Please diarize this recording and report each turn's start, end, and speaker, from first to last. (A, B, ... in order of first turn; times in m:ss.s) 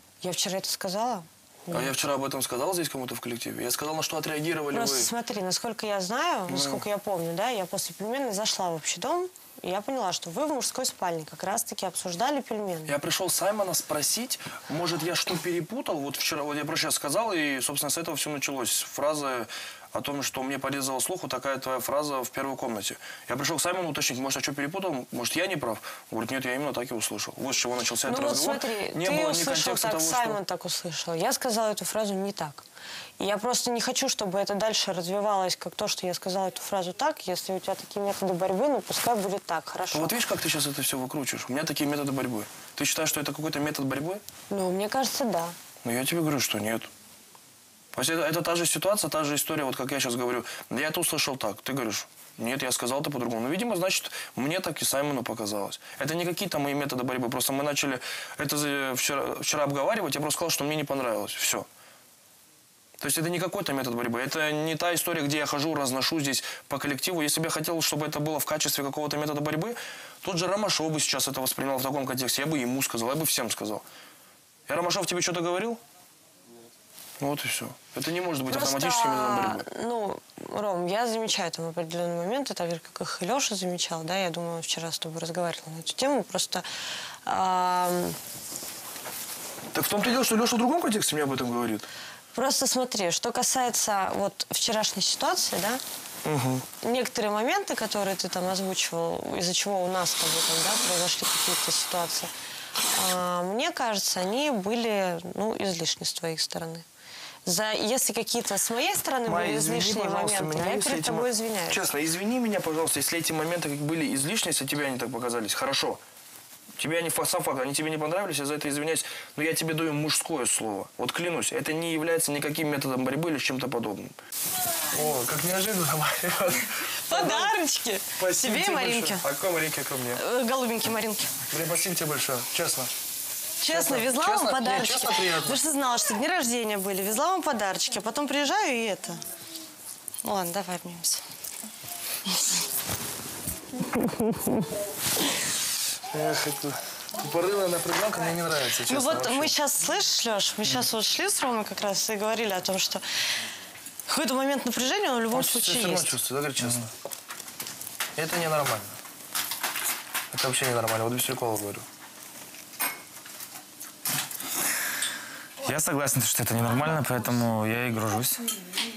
0:00.2-0:01.9 A
0:01.7-0:05.1 B
0:04.7-0:13.0 A
0:06.5-0:06.8 B
0:12.9-0:30.4 B
0:28.0-0:32.6 A
0:33.2-0:40.2 A
0:39.9-0:44.2 B
0:44.5-0:45.6 A
0:45.8-0:46.9 B
0:47.9-1:01.7 B
1:03.0-1:13.8 B
1:14.7-1:15.8 B
1:17.2-1:19.6 B
1:18.5-1:26.7 A
1:27.2-1:28.2 A
1:29.7-1:31.9 B
1:32.3-1:35.8 A
1:36.2-1:36.7 B
1:36.8-1:42.3 A
1:42.9-1:46.9 A
1:47.5-1:51.9 A
1:49.3-1:56.0 B
1:56.8-2:04.2 B
2:04.9-2:07.5 B
2:07.1-2:09.2 A
2:08.2-2:10.2 B
2:10.1-2:11.4 A
2:11.5-2:12.9 B
2:13.6-2:19.2 A
2:13.7-2:15.6 B
2:20.2-2:21.2 A
2:24.0-2:24.3 A
2:26.1-2:29.5 B
2:28.9-2:33.0 A
2:34.1-2:36.2 A
2:35.3-2:36.9 B
2:38.2-2:39.0 B
2:40.3-2:41.9 B
2:45.6-2:48.4 C